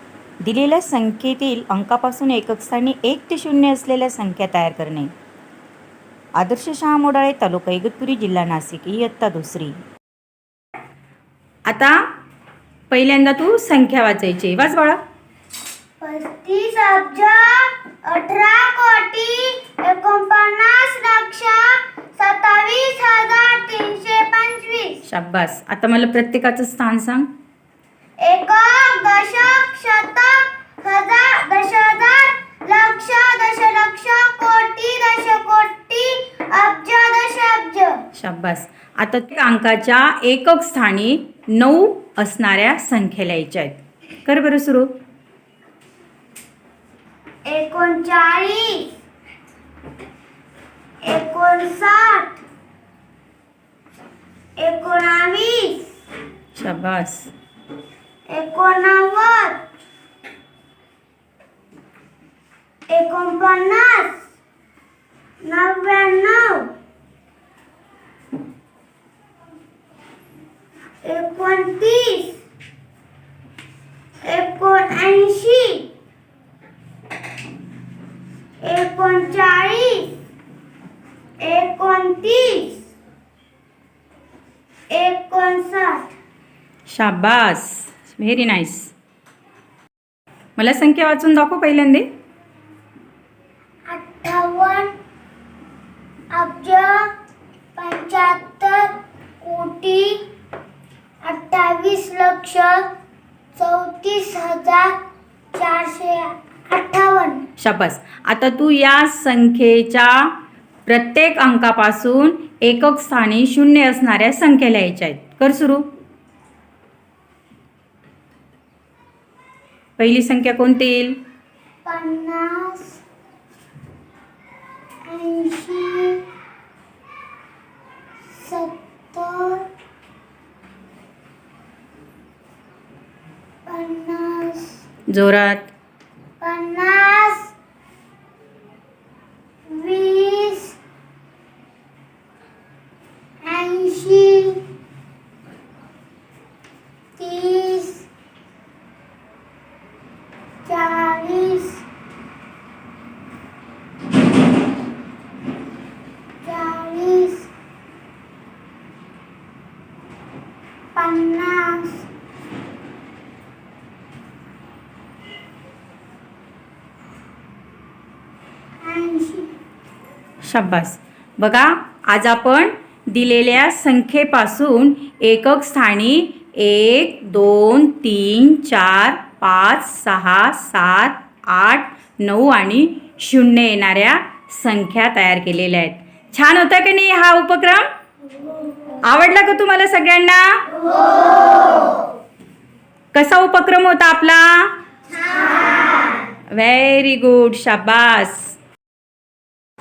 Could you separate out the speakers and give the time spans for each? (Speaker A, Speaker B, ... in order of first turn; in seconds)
Speaker A: 0.4-5.1, 6.4-9.8, 11.7-11.9, 12.9-15.0, 25.1-27.3, 38.2-44.9, 56.5-57.3, 86.9-88.9, 90.6-92.1, 107.6-110.1, 110.9-115.8, 120.0-121.2, 135.1-135.7, 170.4-187.8, 189.0-190.6, 193.1-194.7, 196.5-198.5
Speaker B: 16.0-25.0, 28.2-38.0, 47.5-48.9, 51.0-52.4, 54.6-55.9, 58.3-59.6, 62.9-64.2, 65.4-66.7, 71.0-72.4, 74.2-75.9, 78.6-80.2, 81.4-82.8, 84.9-86.1, 93.9-94.9, 96.3-97.1, 97.8-100.2, 101.3-102.9, 103.6-105.0, 105.5-107.4, 121.8-123.0, 125.1-126.2, 128.3-129.7, 133.7-134.8, 136.4-137.5, 139.7-140.8, 143.4-144.6, 147.2-148.1, 150.7-151.8, 156.4-157.5, 160.9-162.1, 168.8-169.5, 191.1-191.8